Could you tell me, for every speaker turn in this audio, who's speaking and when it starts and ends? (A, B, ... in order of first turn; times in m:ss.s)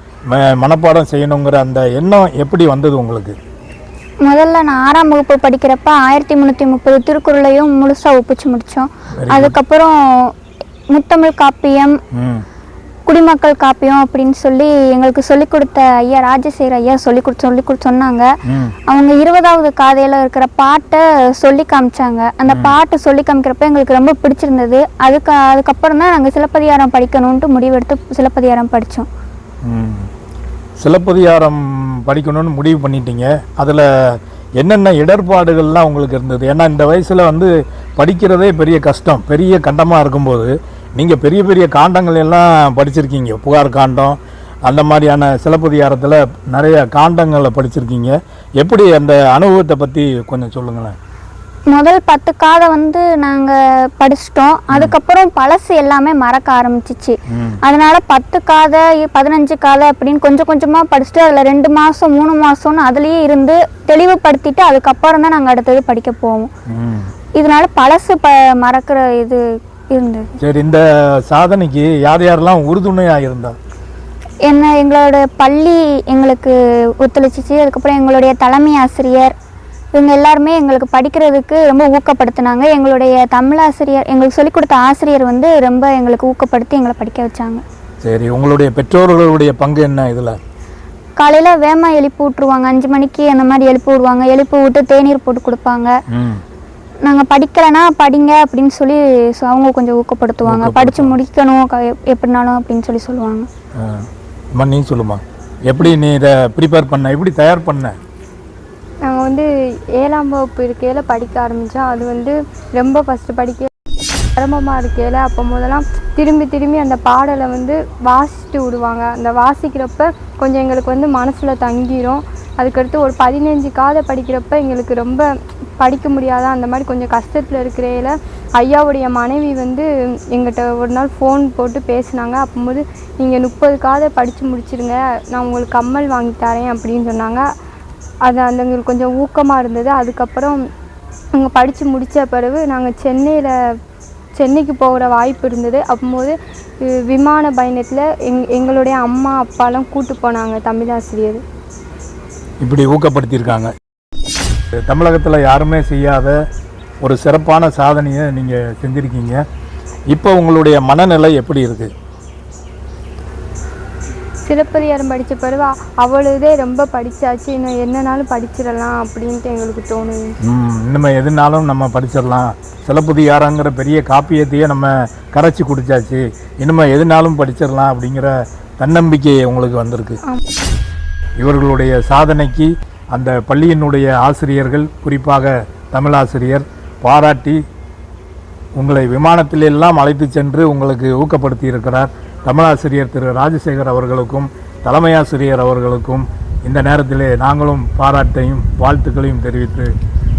0:00.3-0:03.4 A
0:04.2-0:10.3 B
0:09.2-0:09.5 A
0:10.9-0:12.0 B
0:12.1-0:12.4 A
0:13.1-0:18.3 B
0:18.5-0:18.7 A
0:18.9-0:29.1 B
0:22.5-0:22.7 A
0:29.6-0:30.1 A
0:30.8-0:50.9 A
0:51.7-1:06.5 B
0:57.3-0:57.6 A
1:06.7-1:07.1 A
1:07.4-1:10.3 B
1:10.4-1:13.6 A
1:14.4-1:19.3 B
1:19.9-1:27.6 B
1:28.0-1:30.4 A
1:31.2-1:35.9 B
1:36.1-1:36.4 A
1:37.0-1:43.5 B
1:40.4-1:41.2 A
1:44.5-1:48.0 A
1:49.0-1:49.5 C
1:50.0-1:53.7 C
1:54.4-2:05.2 C
2:05.8-2:17.4 C
2:18.2-2:20.6 C
2:21.3-2:23.5 C
2:24.3-2:31.4 C
2:32.6-2:33.7 A
2:34.9-2:36.3 A
2:37.0-2:39.4 A
2:40.1-2:41.9 A
2:44.4-2:50.3 C
2:50.4-3:00.2 A
3:01.4-3:07.6 A
3:08.8-3:19.9 A